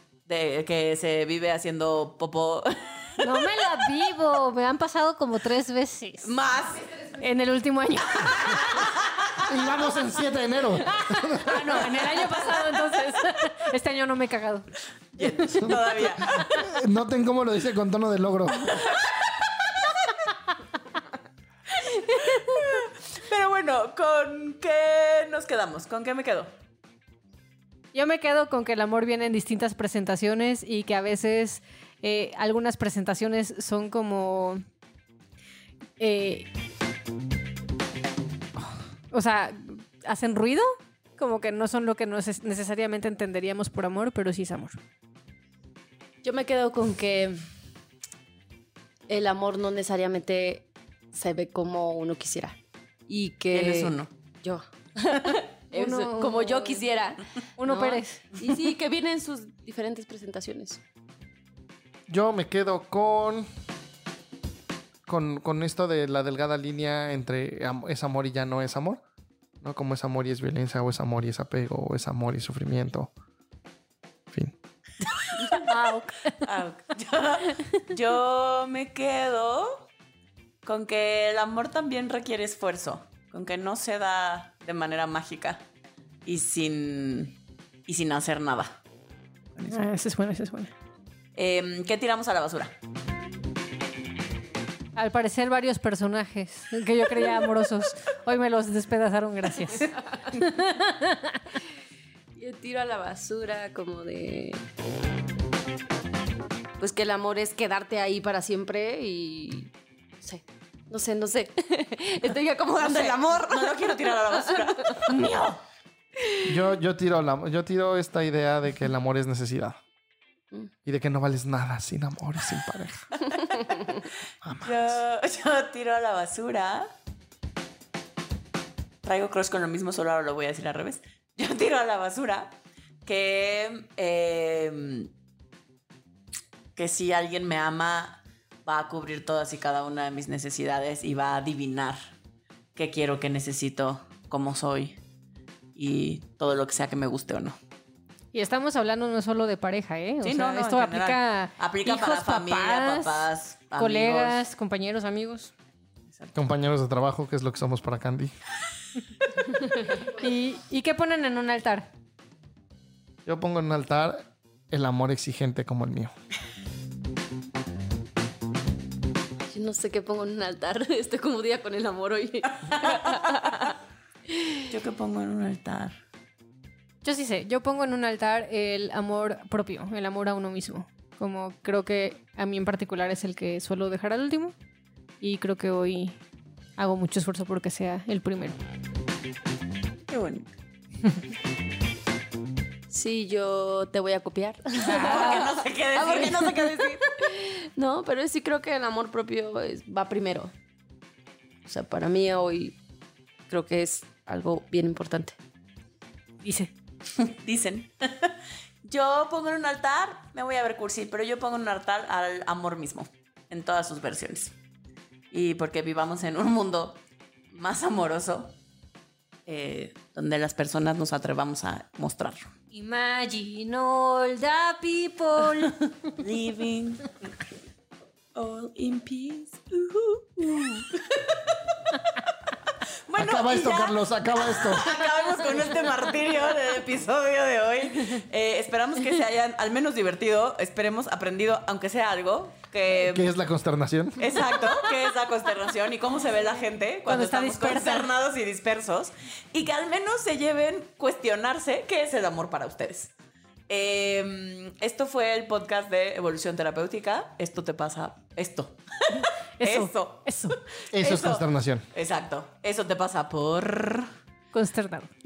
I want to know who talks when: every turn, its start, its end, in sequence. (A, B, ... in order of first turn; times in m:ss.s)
0:00.3-0:03.4 A
0:03.2-0:06.3 B
0:06.2-0:07.0 A
0:07.1-0:08.9 B
0:08.6-0:09.4 A
0:09.4-0:11.9 C
0:10.8-0:15.8 B
0:11.5-0:12.8 A
0:15.2-0:16.5 A
0:15.6-0:18.9 C
0:16.3-0:16.6 B
0:21.8-0:22.5 B
0:22.1-0:26.5 A
0:27.9-0:34.6 B
0:36.0-0:36.5 B
0:39.1-0:44.8 B
0:46.2-0:47.5 D
0:49.1-0:52.6 D
0:53.1-1:00.8 D
0:53.5-0:54.1 A
0:55.7-0:56.8 B
0:57.6-0:58.2 B
1:02.1-1:03.4 C
1:05.1-1:09.0 C
1:09.6-1:13.1 C
1:15.2-1:15.7 A
1:15.6-1:16.4 B
1:16.4-1:19.9 A
1:20.6-1:25.7 A
1:26.3-1:27.4 A
1:27.9-1:28.8 A
1:29.6-1:29.9 A
1:29.7-1:30.7 B
1:31.4-1:32.8 A
1:35.0-1:41.6 B
1:42.4-1:44.6 D
1:46.8-1:55.2 D
1:52.8-1:55.1 A
1:55.1-1:55.6 B
1:56.2-1:56.5 D
1:56.4-1:59.8 C
2:00.9-2:03.1 C
2:03.7-2:04.0 D
2:04.4-2:05.0 C
2:04.6-2:06.9 A
2:09.0-2:15.1 A
2:16.8-2:22.0 A
2:22.8-2:25.0 A
2:25.8-2:27.6 A
2:28.3-2:35.5 B
2:30.2-2:34.4 A
2:36.1-2:36.5 A
2:36.4-2:38.3 C
2:39.9-2:41.9 B
2:43.3-2:46.1 C
2:49.5-2:53.8 D
2:52.8-2:53.2 A
2:54.3-2:54.6 D
2:54.7-2:56.0 A
2:57.0-3:04.6 B
3:05.2-3:06.2 B
3:06.8-3:08.6 B
3:10.1-3:10.5 A
3:12.9-3:20.5 D
3:14.8-3:17.1 A
3:21.7-3:22.8 D
3:23.5-3:25.4 D
3:26.4-3:26.7 B
3:27.2-3:34.6 A
3:35.3-3:37.0 A
3:37.5-3:38.6 A
3:39.5-3:42.5 A
3:42.7-3:45.8 B
3:46.1-3:47.2 A
3:48.4-3:51.5 A
3:53.1-4:03.3 A
3:53.2-3:54.9 C
4:02.9-4:04.3 C
4:04.2-4:13.1 A
4:07.1-4:08.1 B
4:13.7-4:24.1 A
4:19.2-4:20.6 B
4:20.9-4:21.8 C
4:24.5-4:25.1 B